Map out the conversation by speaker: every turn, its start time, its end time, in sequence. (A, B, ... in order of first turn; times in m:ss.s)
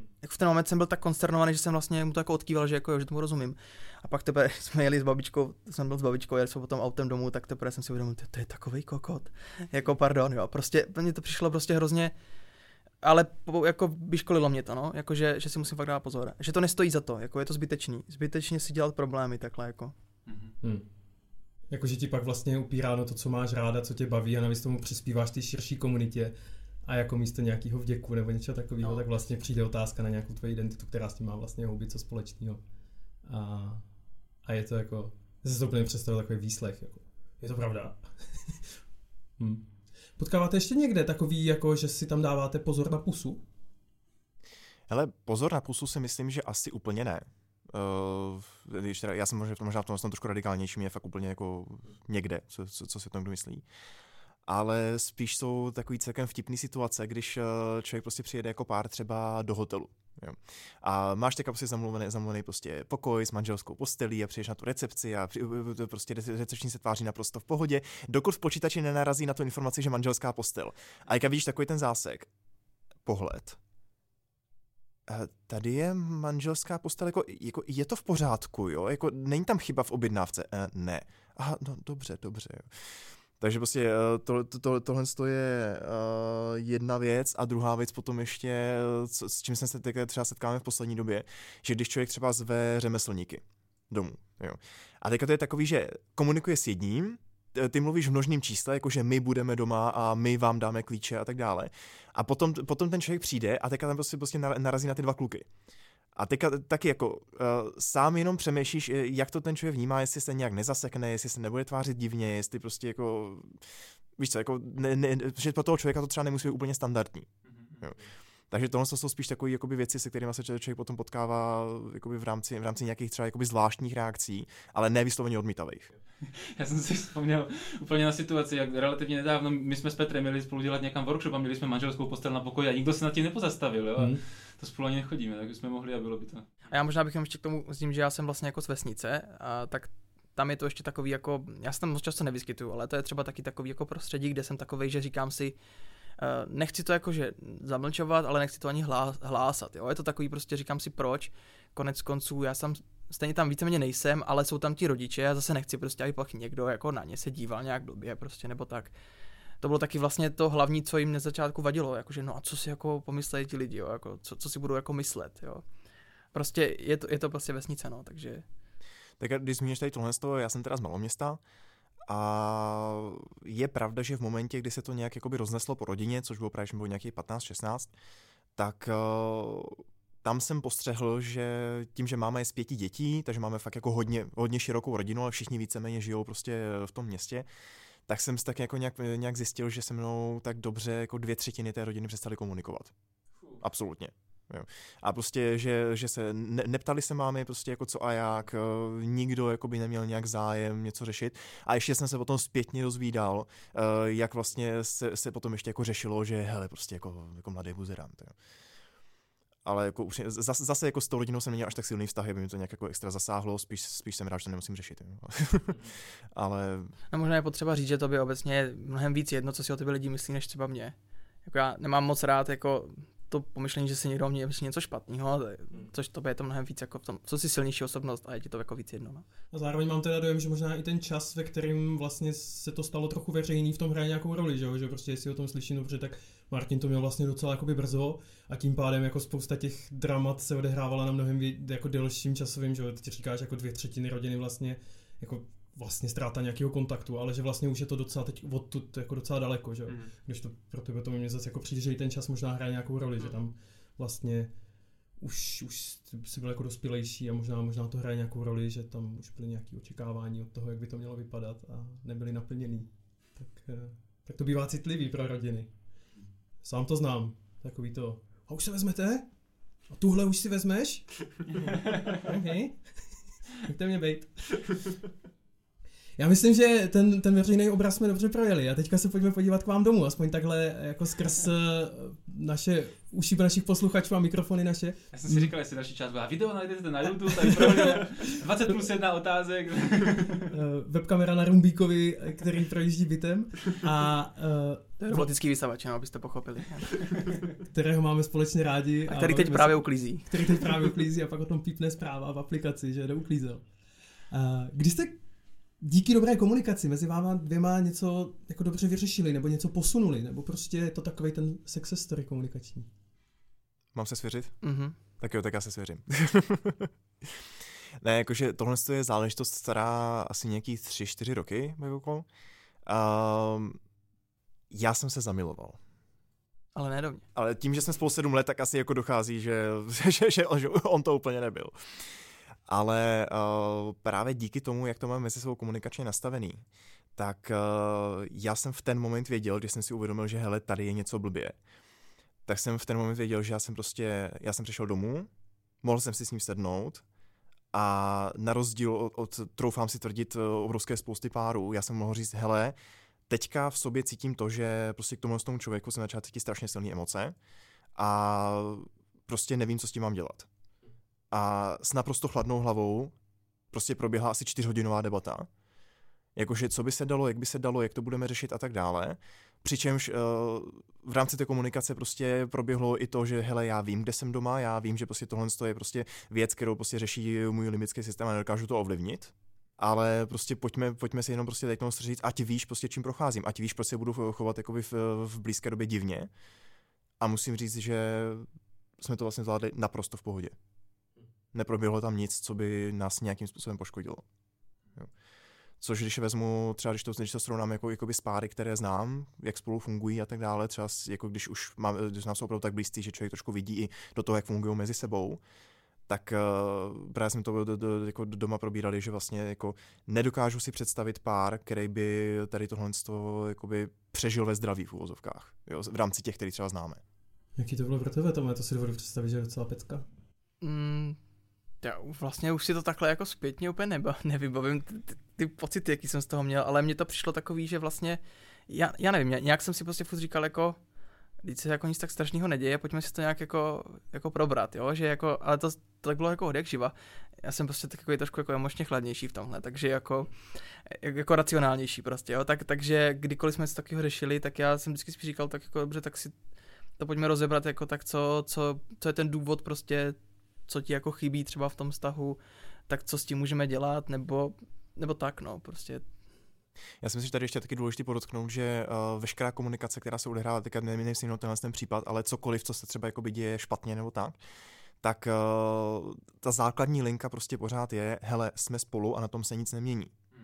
0:00.2-0:12.1 A
0:13.0-0:19.9 A
0:20.3-0:20.5 B
0:21.7-0:32.6 C
0:33.3-0:33.8 C
0:34.4-0:38.0 C
0:39.4-0:39.7 C
0:40.2-0:43.4 C
0:44.9-0:53.6 D
0:54.5-1:12.3 D
1:13.0-1:13.6 D
1:15.1-1:22.8 D
1:23.4-1:45.5 D
1:46.2-1:53.6 D
1:54.2-1:57.3 D
1:58.5-2:05.9 D
2:06.3-2:16.5 B
2:16.7-2:25.6 A
2:26.2-2:38.9 A
2:39.6-2:45.6 A
2:46.3-2:48.4 A
2:49.2-2:51.4 D
2:52.1-2:57.9 D
2:58.6-3:07.5 D
3:08.1-3:12.9 D
3:13.6-3:28.3 D
3:29.6-3:36.9 D
3:37.1-3:49.2 A
3:49.5-4:14.5 C
4:15.2-4:25.7 C
4:26.6-4:29.3 C
4:29.9-4:34.9 C
4:36.2-4:45.5 C
4:45.1-4:50.5 B
4:47.5-4:48.1 C
4:50.5-4:55.3 C
4:55.0-4:57.2 A
4:57.7-5:03.7 C
4:59.1-5:00.7 A
5:04.3-5:05.2 C
5:05.8-5:12.9 C
5:13.9-5:14.6 D
5:14.6-5:15.0 A
5:15.2-5:17.4 D
5:18.0-5:22.3 D
5:22.9-5:23.8 D
5:24.7-5:25.8 D
5:26.8-5:27.2 A
5:27.4-5:31.8 D
5:32.7-5:36.6 D
5:37.2-5:41.6 D
5:42.5-5:45.3 D
5:45.8-5:47.0 D
5:47.7-5:52.8 D
5:53.3-5:57.4 D
5:58.0-6:00.5 D
6:01.3-6:03.2 D
6:03.7-6:05.5 D
6:06.4-6:26.3 D
6:27.2-6:28.5 D
6:29.0-6:30.6 D
6:31.5-6:34.2 D
6:35.8-6:45.4 D
6:46.1-6:57.0 D
6:57.6-7:00.0 C
7:00.6-7:01.2 A
7:01.8-7:10.8 A
7:11.4-7:26.4 A
7:27.0-7:30.2 A
7:30.7-7:32.4 A
7:32.9-7:36.0 A
7:37.0-7:44.4 D
7:45.0-7:50.1 D